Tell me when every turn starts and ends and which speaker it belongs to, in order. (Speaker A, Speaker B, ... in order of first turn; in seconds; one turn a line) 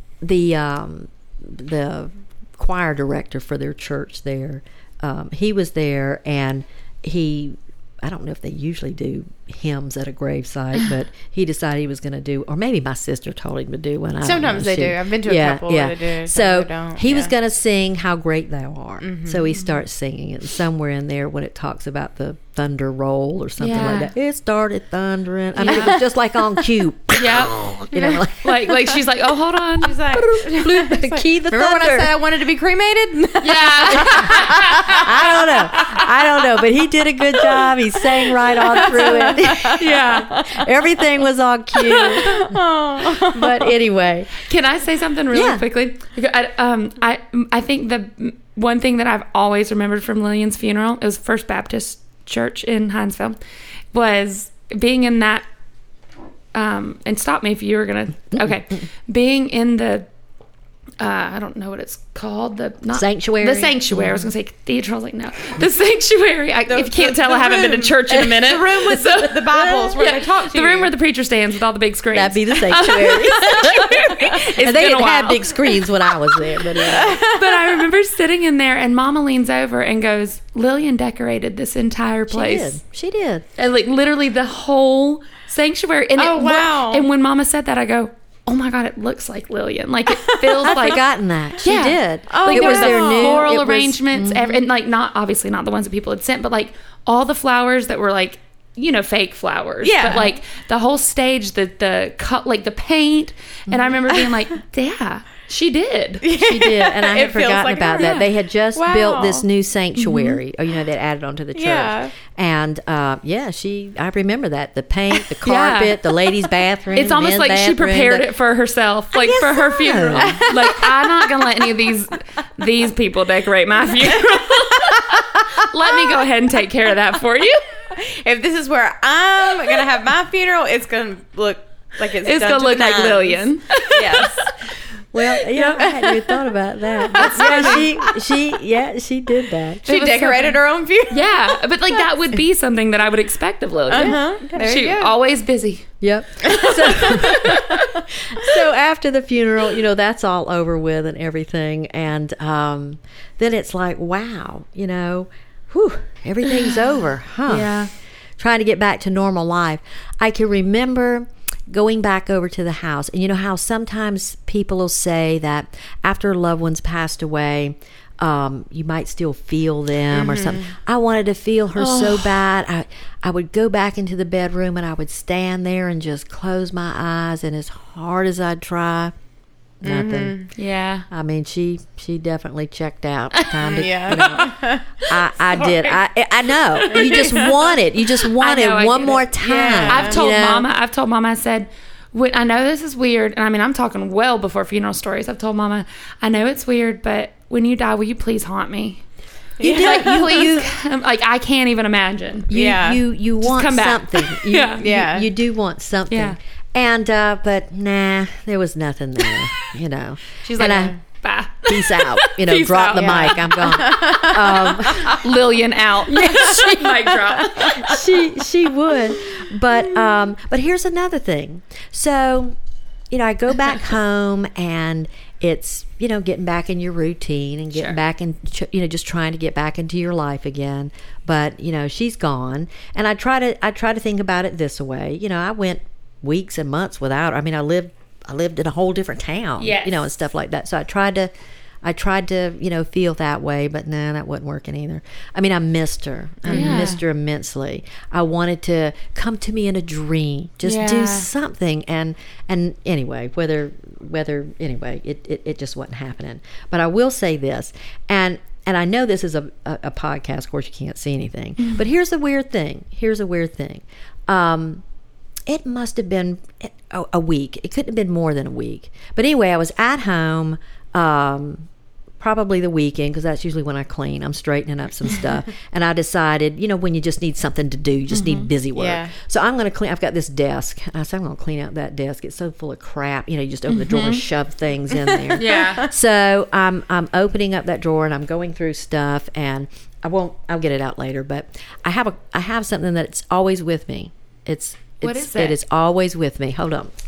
Speaker A: 0.2-28.7
Speaker B: 14.2-17.3
Speaker B: 19.0-19.5
Speaker C: 23.6-24.1
Speaker C: 25.6-26.0
Speaker B: 25.7-26.0
Speaker C: 27.1-27.7
Speaker B: 27.9-28.2
Speaker C: 28.4-29.9
Speaker B: 29.8-35.1
Speaker A: 30.1-32.2
Speaker C: 33.4-35.9
Speaker A: 34.0-44.3
Speaker B: 35.6-36.0
Speaker B: 37.4-37.7
Speaker B: 38.2-40.7
Speaker C: 39.7-40.3
Speaker B: 41.8-43.7
Speaker C: 44.4-53.4
Speaker A: 45.3-45.6
Speaker C: 53.9-55.4
Speaker C: 56.5-60.1
Speaker C: 61.0-75.8
Speaker A: 62.9-64.3
Speaker B: 66.7-70.9
Speaker A: 72.1-77.2
Speaker B: 76.7-77.9
Speaker C: 77.0-82.8
Speaker A: 82.3-83.5
Speaker C: 83.6-91.0
Speaker B: 86.2-87.1
Speaker B: 90.1-90.9
Speaker A: 90.6-94.6
Speaker C: 91.6-106.2
Speaker B: 92.3-93.5
Speaker B: 99.8-100.3
Speaker A: 103.7-104.0
Speaker B: 106.2-109.5
Speaker A: 106.3-118.3
Speaker C: 110.0-110.4
Speaker B: 111.5-112.1
Speaker C: 115.4-116.0
Speaker C: 116.9-127.8
Speaker A: 119.1-120.5
Speaker B: 120.2-121.4
Speaker B: 127.9-134.5
Speaker C: 132.2-134.5
Speaker A: 135.1-139.8
Speaker C: 135.4-136.1
Speaker B: 135.8-136.3
Speaker C: 137.1-137.9
Speaker B: 137.2-138.0
Speaker B: 139.8-141.6
Speaker C: 139.8-145.9
Speaker B: 143.9-145.1
Speaker A: 144.0-144.7
Speaker A: 146.0-147.8
Speaker B: 146.5-148.5
Speaker C: 147.3-147.8
Speaker A: 148.3-157.8
Speaker C: 157.5-157.9
Speaker A: 158.4-179.1
Speaker B: 170.1-170.7
Speaker C: 171.8-172.4
Speaker A: 179.8-180.4
Speaker B: 179.8-180.5
Speaker C: 180.5-181.1
Speaker A: 181.1-190.7
Speaker C: 183.3-184.4
Speaker B: 183.6-185.0
Speaker C: 185.5-186.0
Speaker C: 186.7-187.6
Speaker C: 188.3-189.3
Speaker B: 189.4-190.2
Speaker C: 189.8-199.0
Speaker B: 199.6-200.6
Speaker A: 199.6-200.7
Speaker C: 199.7-202.5
Speaker A: 202.5-210.9
Speaker B: 202.5-203.0
Speaker C: 203.4-204.8
Speaker B: 204.8-205.3
Speaker C: 206.1-206.4
Speaker C: 210.4-213.9
Speaker B: 210.7-210.9
Speaker A: 211.6-215.2
Speaker B: 213.0-215.2
Speaker C: 215.0-218.0
Speaker A: 216.2-216.7
Speaker B: 216.2-217.5
Speaker A: 217.6-222.6
Speaker A: 223.1-241.3
Speaker C: 239.6-240.1
Speaker A: 241.8-264.8
Speaker C: 246.4-247.0
Speaker B: 246.5-246.8
Speaker C: 250.6-251.3
Speaker A: 265.5-271.7
Speaker A: 272.2-296.9
Speaker C: 278.1-278.5
Speaker B: 278.7-279.1
Speaker C: 283.7-284.2
Speaker B: 285.2-285.9
Speaker C: 285.4-285.9
Speaker C: 295.0-295.6